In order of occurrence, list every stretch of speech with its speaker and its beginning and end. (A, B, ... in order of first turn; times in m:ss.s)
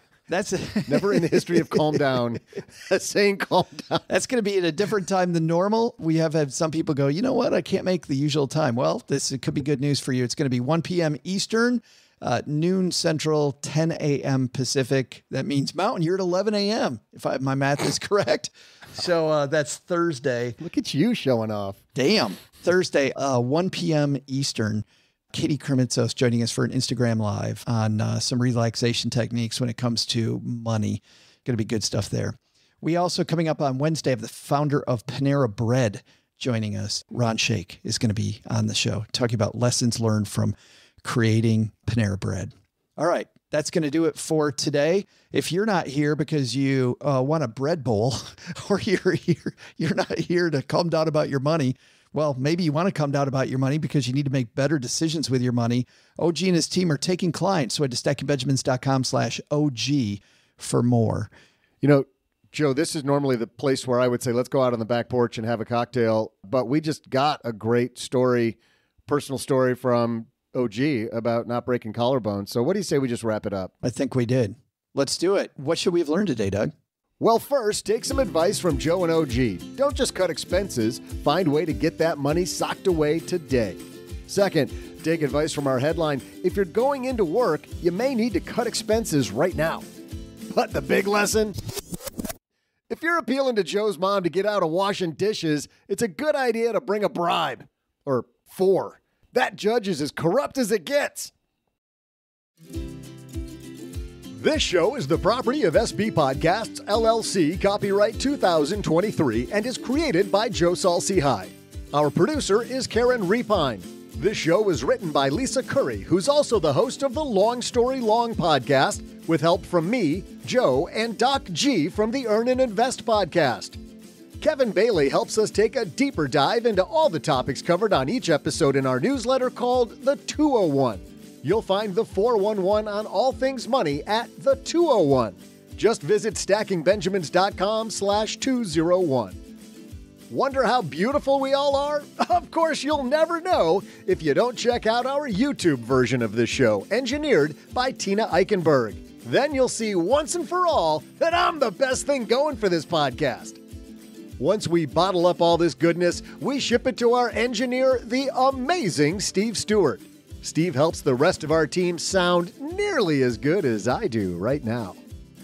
0:00.3-0:02.2 A
0:00.9-0:04.0 B
0:04.1-0:20.6 A
0:20.6-0:21.8 B
0:22.0-1:01.3 A
1:01.8-1:13.7 B
1:13.8-1:16.7 A
1:17.2-1:29.8 B
1:30.5-1:31.6 B
1:32.9-1:41.3 B
1:44.4-2:03.8 B
2:04.4-2:19.4 B
2:20.3-2:33.6 B
2:34.4-2:45.0 B